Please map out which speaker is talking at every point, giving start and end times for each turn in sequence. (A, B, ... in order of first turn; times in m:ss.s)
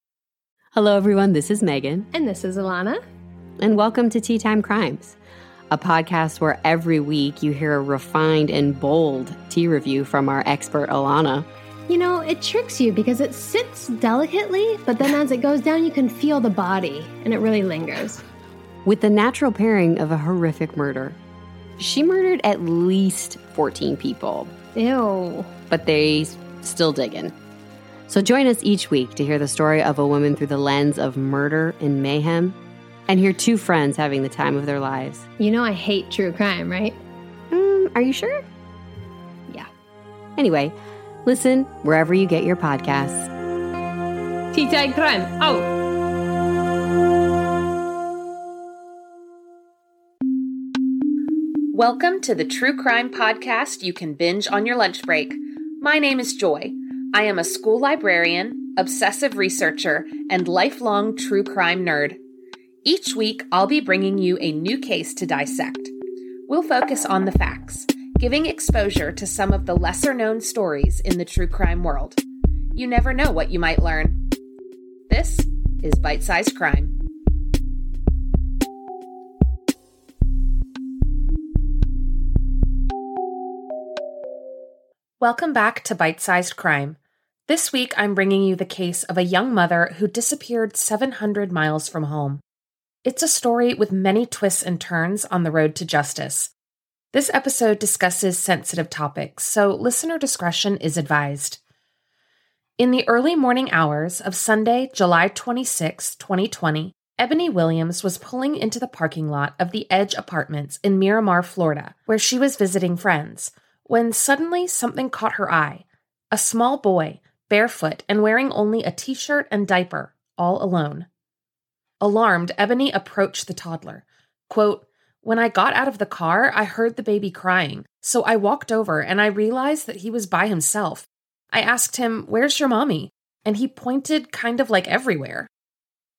0:00.7-0:02.1 A
0:02.1-0:03.0 B
0:03.6-0:05.2 A
0:05.7-0:11.5 A
0:11.9-0:18.2 B
0:18.8-0:21.2 A
0:21.8-0:24.6 A
0:24.7-0:25.6 B
0:25.6-0:27.3 A
0:28.1-0:32.6 A
0:33.1-0:35.3 A
0:35.4-0:37.0 B
0:37.5-0:38.4 A
0:40.4-0:43.3 A
0:44.5-0:45.7 B
0:51.7-1:02.2 C
1:02.8-1:05.9 C
1:06.5-1:12.2 C
1:12.7-1:14.2 C
1:15.1-1:17.0 C
1:25.2-1:32.4 C
1:33.0-1:36.5 C
1:37.1-1:41.6 C
1:42.8-2:01.1 C
2:02.0-2:15.5 C